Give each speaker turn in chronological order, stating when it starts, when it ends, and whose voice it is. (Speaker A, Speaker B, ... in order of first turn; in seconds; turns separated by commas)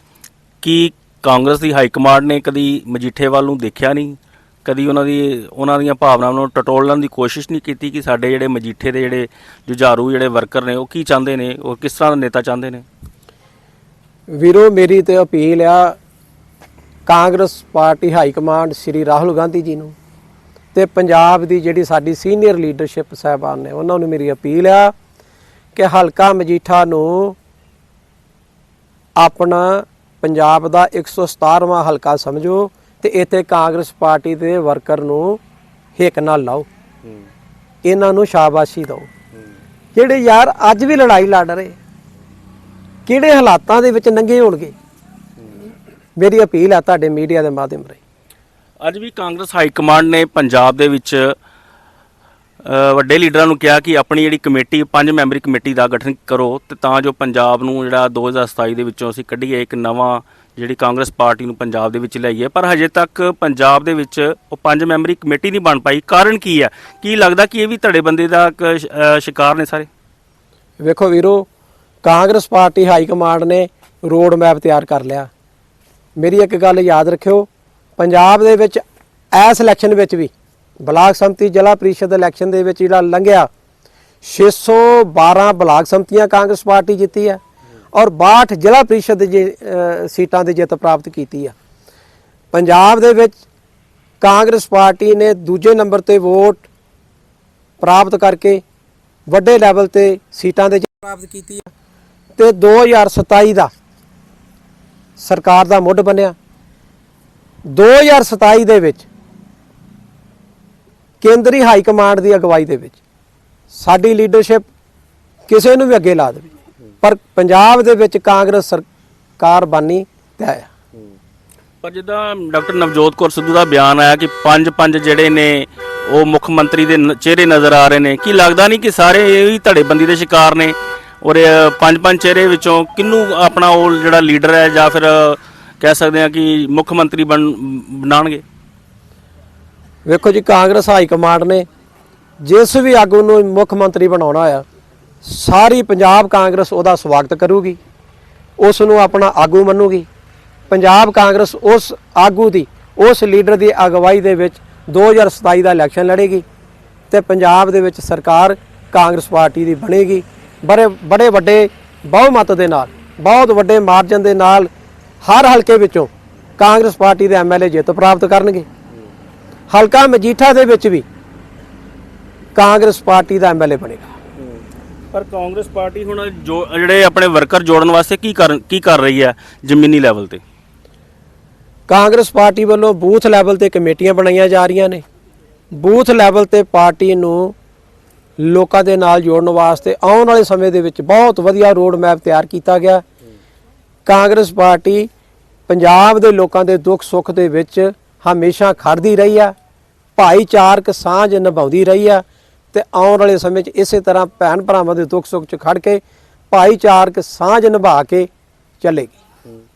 Speaker A: 0.6-12.9, Speaker B: 14.3-16.0, Speaker B: 17.1-19.9, Speaker B: 20.7-24.9, Speaker B: 25.8-27.4, Speaker B: 29.2-35.4, Speaker B: 36.0-36.7, Speaker B: 37.8-39.1, Speaker B: 40.0-41.8, Speaker B: 43.1-44.8, Speaker B: 46.2-48.0, Speaker A: 48.8-51.4, Speaker A: 52.6-69.9, Speaker B: 70.8-71.5, Speaker B: 72.0-75.3, Speaker B: 76.2-78.8, Speaker B: 79.3-80.3, Speaker B: 80.8-83.5, Speaker B: 84.2-87.4, Speaker B: 87.9-91.5, Speaker B: 92.5-93.4, Speaker B: 94.2-96.7, Speaker B: 97.8-98.6, Speaker B: 99.3-101.7, Speaker B: 102.4-103.7, Speaker B: 105.2-106.3, Speaker B: 107.7-109.1, Speaker B: 111.2-113.0, Speaker B: 113.7-114.7, Speaker B: 115.5-116.5, Speaker B: 117.0-118.9, Speaker B: 119.4-120.7, Speaker A: 121.8-138.4, Speaker B: 140.1-141.7, Speaker B: 142.4-144.7, Speaker B: 145.2-147.8, Speaker B: 148.6-150.1, Speaker B: 150.7-156.4, Speaker B: 157.1-164.7, Speaker B: 165.2-168.7, Speaker B: 169.7-171.1, Speaker B: 172.6-174.1, Speaker A: 175.1-180.4, Speaker B: 181.9-185.0, Speaker B: 185.8-187.6, Speaker B: 188.4-193.1, Speaker B: 194.1-195.1, Speaker B: 195.7-199.5, Speaker B: 200.2-208.3, Speaker B: 208.8-209.2